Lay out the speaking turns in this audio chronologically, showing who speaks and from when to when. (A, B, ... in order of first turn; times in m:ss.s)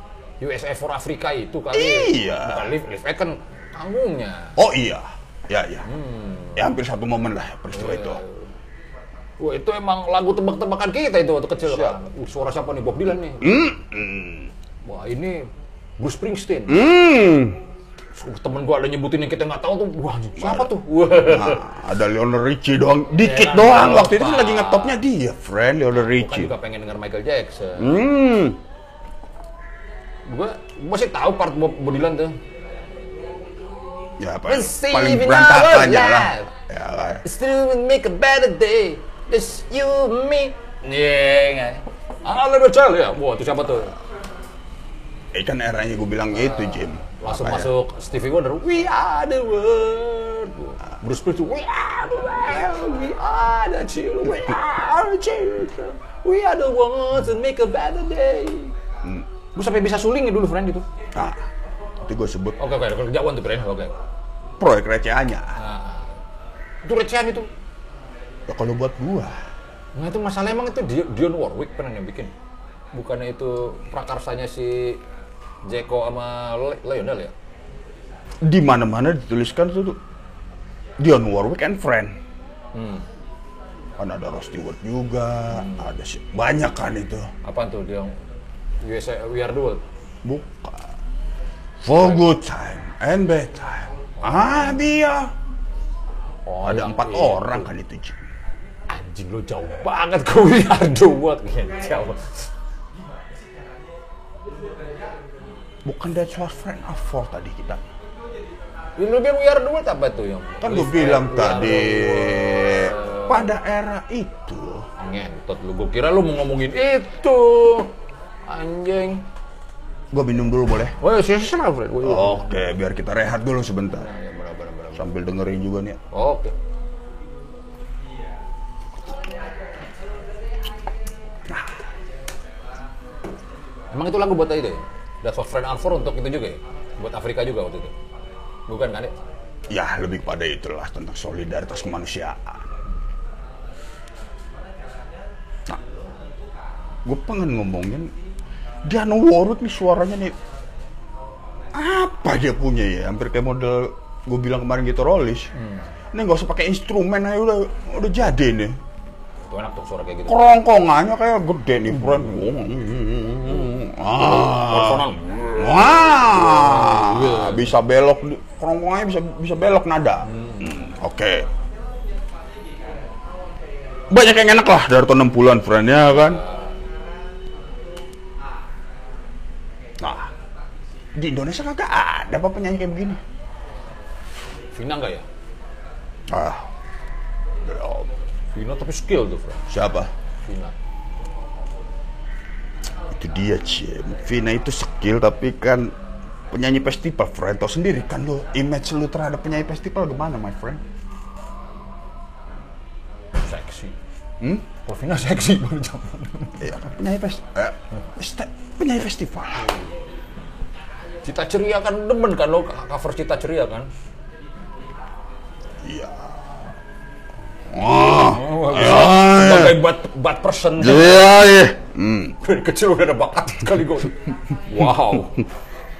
0:00.4-0:04.6 A
0:01.7-0:02.7 B
0:04.6-0:05.8 B
0:05.9-0:06.7 A
0:06.6-0:08.2 B
0:07.7-0:08.5 A
0:09.4-0:13.6 A
0:11.7-0:11.9 B
0:13.4-0:14.5 B
0:14.8-0:16.9 A
0:16.7-0:17.6 B
0:18.1-0:21.6 A
0:20.4-0:26.5 B
0:23.2-0:25.0 A
0:26.0-0:28.0 A
0:27.8-0:28.6 B
0:30.3-0:32.4 A
0:34.2-0:37.2 B
0:34.5-0:36.5 A
0:37.2-0:44.0 A
0:45.3-0:47.7 B
0:46.3-0:58.7 A
0:59.6-1:00.8 A
1:02.0-1:02.6 B
1:02.6-1:04.0 A
1:04.6-1:05.6 B
1:05.6-1:06.2 A
1:06.8-1:07.5 A
1:08.5-1:09.4 B
1:10.0-1:12.3 A
1:12.9-1:15.0 A
1:15.6-1:17.3 A
1:18.4-1:20.0 B
1:21.0-1:22.2 B
1:22.7-1:23.1 A
1:24.0-1:27.3 B
1:25.5-1:26.0 A
1:27.4-1:28.1 A
1:28.8-1:29.8 A
1:30.2-1:30.9 B
1:31.8-1:35.3 B
1:31.9-1:32.2 A
1:34.2-1:34.8 A
1:36.5-1:37.7 A
1:36.6-1:38.2 B
1:38.9-1:42.5 A
1:45.8-1:47.8 B
1:49.0-1:53.6 A
1:50.6-1:54.8 B
1:55.0-1:57.9 A
1:58.5-1:59.2 A
2:00.1-2:01.0 B
2:01.0-2:02.7 A
2:02.0-2:04.1 B
2:03.9-2:05.1 A
2:05.0-2:06.0 B
2:06.1-2:06.5 A
2:11.5-2:11.8 B
2:13.9-2:17.9 A
2:18.7-2:19.1 A
2:19.7-2:22.6 B
2:27.0-2:28.1 B
2:28.8-2:30.4 B
2:31.7-2:35.5 B
2:35.6-2:35.9 A
2:36.1-2:38.8 B
2:39.5-2:40.4 A
2:40.3-2:51.5 B
2:44.2-2:47.7 A
2:50.3-2:50.8 A
2:54.1-2:56.4 B
2:56.1-2:56.7 A
3:00.0-3:00.3 B
3:01.2-3:03.2 B
3:04.7-3:05.3 A
3:06.3-3:06.7 B
3:07.6-3:08.1 B
3:08.5-3:09.7 A
3:09.7-3:10.1 B
3:10.4-3:10.8 A
3:13.1-3:15.9 B
3:16.5-3:20.8 B
3:23.4-3:24.0 A
3:24.4-3:24.7 B
3:24.8-3:26.6 A
3:26.6-3:29.7 B
3:31.2-3:33.9 A
3:35.8-3:36.4 B
3:37.7-3:39.8 B
3:38.1-3:41.4 A
3:40.8-3:42.4 B
3:42.4-3:45.4 A